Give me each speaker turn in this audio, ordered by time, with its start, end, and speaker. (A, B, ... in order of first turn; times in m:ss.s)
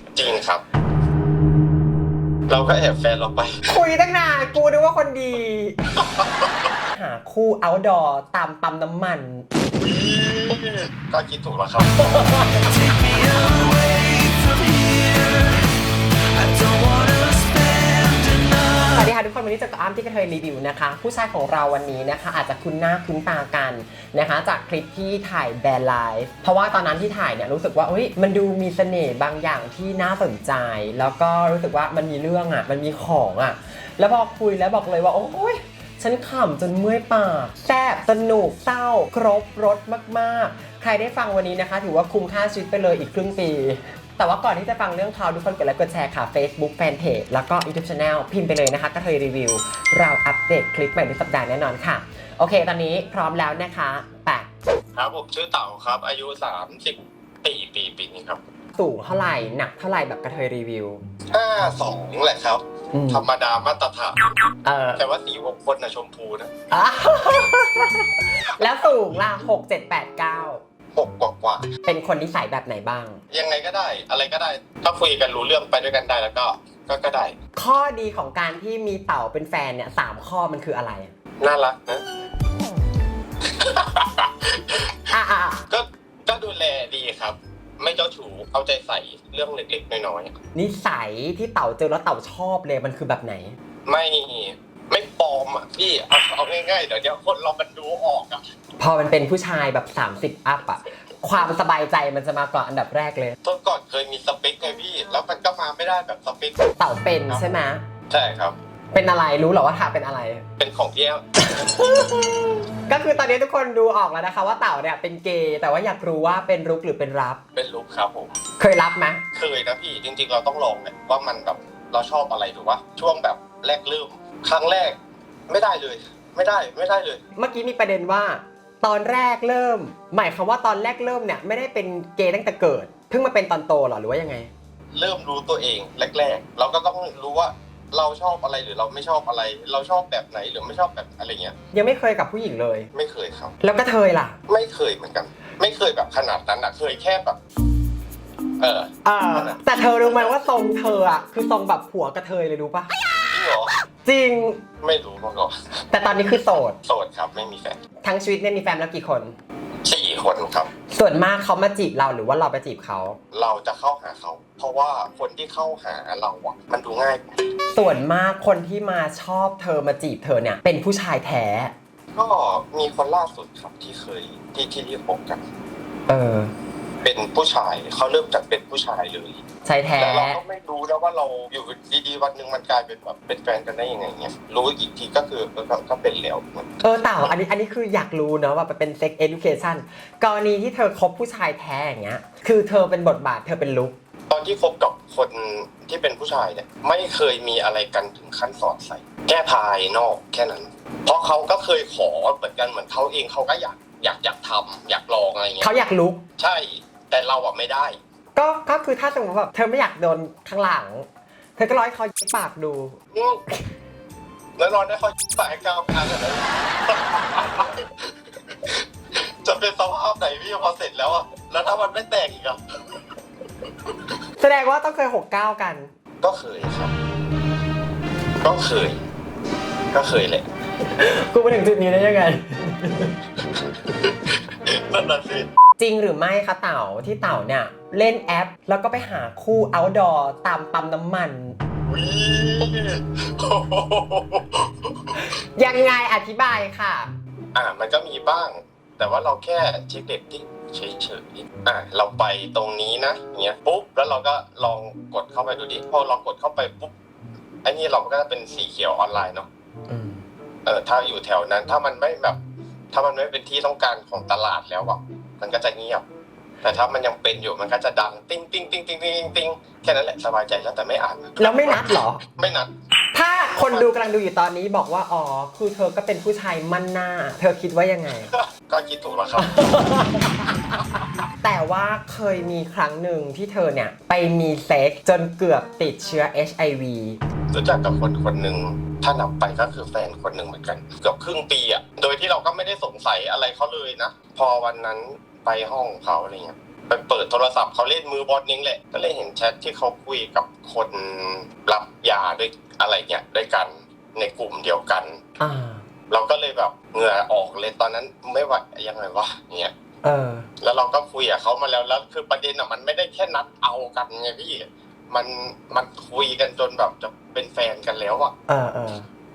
0:00.1-0:00.6 A
0:02.5-0:03.7 A
0:03.7-0:05.8 B
0:06.0-0:06.7 A
0:06.9-0:09.4 B
0:09.8-0:12.5 A
0:12.1-0:12.5 B
0:12.6-0:15.7 C
0:16.3-0:19.1 C
0:18.9-0:54.5 B
0:55.0-0:58.4 A
0:58.7-1:01.0 B
1:01.3-1:04.2 A
1:02.9-1:03.2 B
1:04.6-1:05.0 B
1:05.0-1:06.5 A
1:06.7-1:10.6 B
1:10.9-1:11.7 A
1:11.8-1:13.2 B
1:13.3-1:17.3 A
1:17.6-1:21.1 B
1:21.4-1:22.0 A
1:23.4-1:25.1 A
1:25.1-1:25.6 B
1:25.7-1:30.4 A
1:30.5-1:33.6 B
1:33.9-1:38.4 A
1:38.8-1:43.4 B
1:43.4-1:46.7 A
1:46.8-1:47.8 B
1:48.1-1:48.6 A
1:48.9-1:50.4 B
1:50.6-1:51.2 A
1:51.4-1:57.4 B
1:57.5-1:58.3 A
1:58.6-1:59.2 B
1:59.3-2:05.0 A
2:05.5-2:07.2 A
2:07.4-2:14.5 B
2:14.9-2:21.6 A
2:21.7-2:22.9 B
2:22.9-2:23.5 A
2:23.6-2:24.4 B
2:24.5-2:27.4 A
2:28.6-2:29.6 A
2:29.0-2:32.9 B
2:33.3-2:33.7 A
2:34.0-2:34.6 B
2:34.8-2:35.8 A
2:35.9-2:36.8 B
2:36.8-2:37.8 A
2:38.0-2:39.4 B
2:39.8-2:40.7 A
2:40.9-2:43.2 B
2:43.3-2:47.2 A
2:47.7-2:51.7 B
2:52.1-2:55.4 A
2:56.1-2:56.5 B
2:57.0-2:59.4 A
2:59.6-3:00.4 B
3:00.0-3:06.8 A
3:06.8-3:13.9 B
3:14.3-3:25.7 A
3:25.6-3:26.2 B
3:26.4-3:28.0 A
3:28.4-3:33.0 B
3:33.1-3:33.4 A
3:34.6-3:42.6 A
3:44.4-3:45.9 B
3:46.2-3:46.9 A
3:48.4-3:49.0 A
3:49.9-3:50.4 A
3:50.8-3:53.1 B
3:53.9-3:55.5 A
3:55.8-4:01.6 B
4:01.9-4:05.3 A
4:05.2-4:07.1 B
4:07.5-4:16.9 A
4:17.6-4:19.5 A
4:19.9-4:20.2 B
4:20.6-4:22.4 A
4:22.9-4:26.0 A
4:26.6-4:32.7 A
4:31.4-4:32.2 B
4:33.1-4:38.3 B
4:38.2-4:39.6 A
4:39.4-4:40.8 B
4:41.4-4:47.2 B
4:47.5-5:05.2 A
5:05.4-5:05.8 B
5:06.1-5:09.7 A
5:10.0-5:10.4 B
5:10.6-5:18.3 A
5:18.5-5:19.1 B